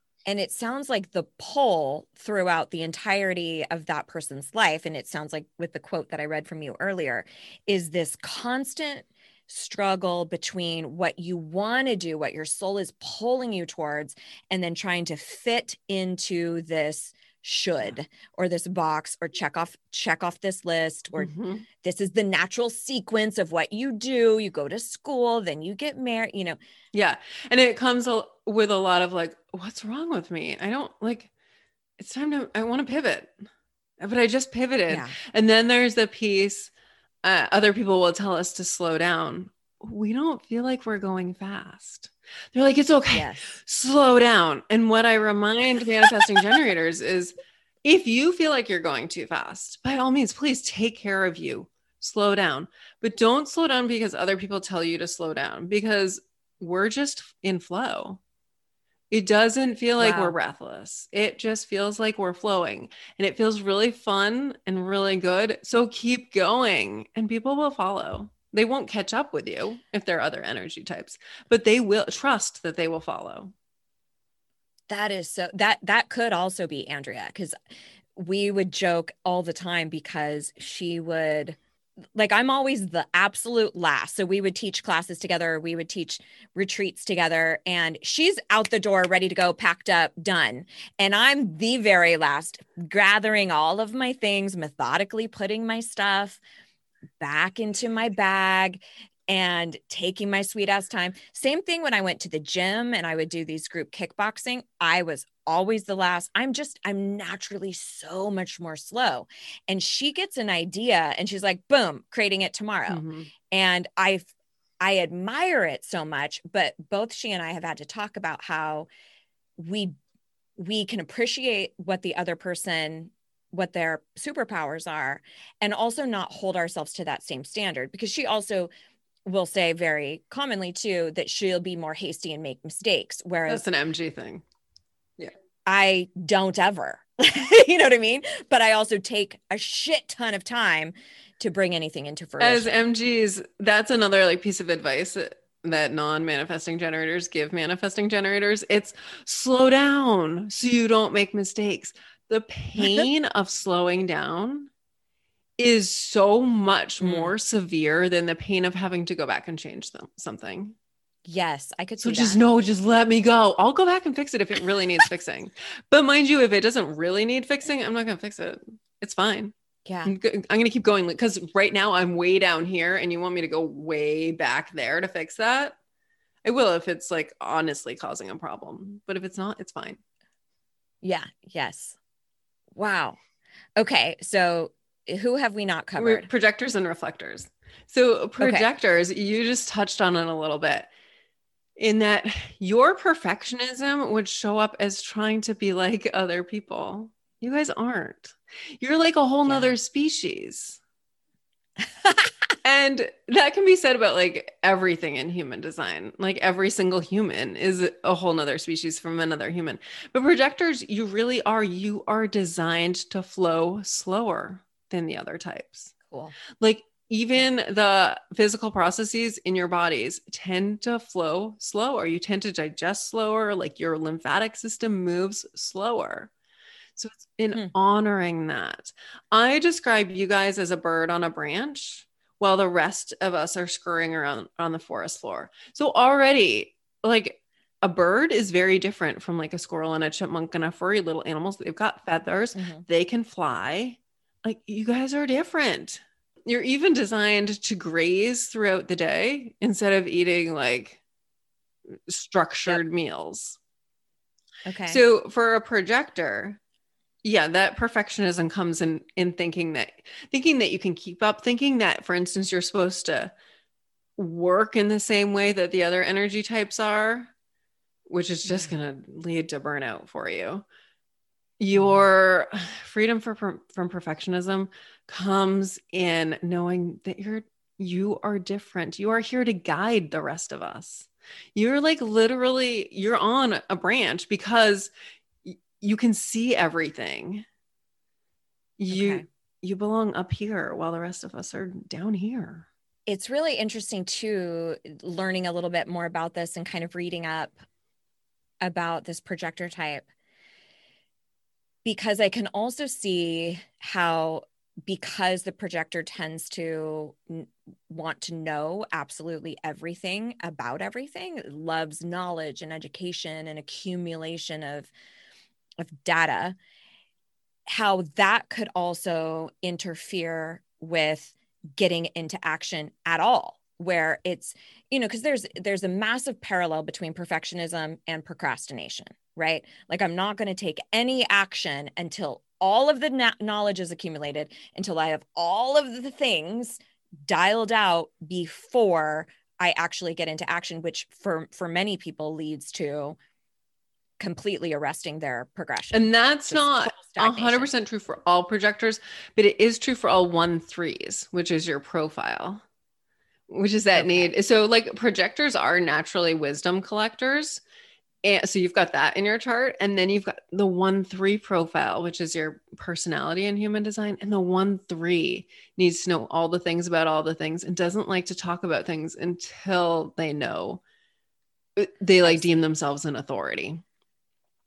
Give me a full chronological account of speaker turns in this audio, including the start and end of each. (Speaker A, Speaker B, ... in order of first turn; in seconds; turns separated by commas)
Speaker A: 0.3-21.3, Speaker B: 21.2-21.7, Speaker A: 21.8-26.6, Speaker B: 26.9-31.3, Speaker B: 32.0-33.5, Speaker B: 34.0-36.7, Speaker A: 34.9-35.2, Speaker B: 37.2-58.2, Speaker A: 43.1-43.6, Speaker B: 59.1-73.5, Speaker A: 60.0-60.4, Speaker A: 74.9-77.5, Speaker A: 78.2-81.6, Speaker A: 82.2-96.4, Speaker A: 97.2-114.3, Speaker B: 112.9-113.3, Speaker A: 114.8-118.9, Speaker A: 119.6-120.0, Speaker A: 120.6-128.7, Speaker A: 129.2-133.7, Speaker B: 133.5-134.4, Speaker A: 135.7-142.7, Speaker B: 142.4-154.7, Speaker B: 155.6-160.8, Speaker A: 157.0-157.3, Speaker A: 161.3-162.4, Speaker B: 162.0-169.5, Speaker A: 169.8-170.2, Speaker B: 170.1-175.8, Speaker B: 176.4-180.0, Speaker A: 181.0-182.0, Speaker A: 182.8-183.2, Speaker A: 183.8-186.3, Speaker B: 186.0-190.9, Speaker A: 188.4-188.7, Speaker B: 191.8-200.8, Speaker A: 199.5-199.7, Speaker B: 202.6-215.9, Speaker A: 216.1-216.3, Speaker B: 216.6-226.3, Speaker B: 227.0-251.0, Speaker A: 242.6-242.8, Speaker B: 251.9-253.6, Speaker A: 254.7-255.0, Speaker B: 254.9-256.6, Speaker B: 257.2-263.3, Speaker B: 264.2-267.3, Speaker B: 268.1-270.6, Speaker A: 268.5-268.7, Speaker B: 271.6-284.9, Speaker A: 271.8-272.0, Speaker B: 285.4-287.4, Speaker B: 288.8-292.7, Speaker A: 288.9-289.2, Speaker A: 293.1-297.6, Speaker A: 298.6-300.1, Speaker A: 301.9-314.9, Speaker A: 315.8-316.6, Speaker A: 317.7-343.2, Speaker A: 344.2-347.7, Speaker B: 345.9-352.6, Speaker B: 353.5-357.6, Speaker A: 353.9-354.3, Speaker B: 358.2-370.8, Speaker B: 371.8-373.8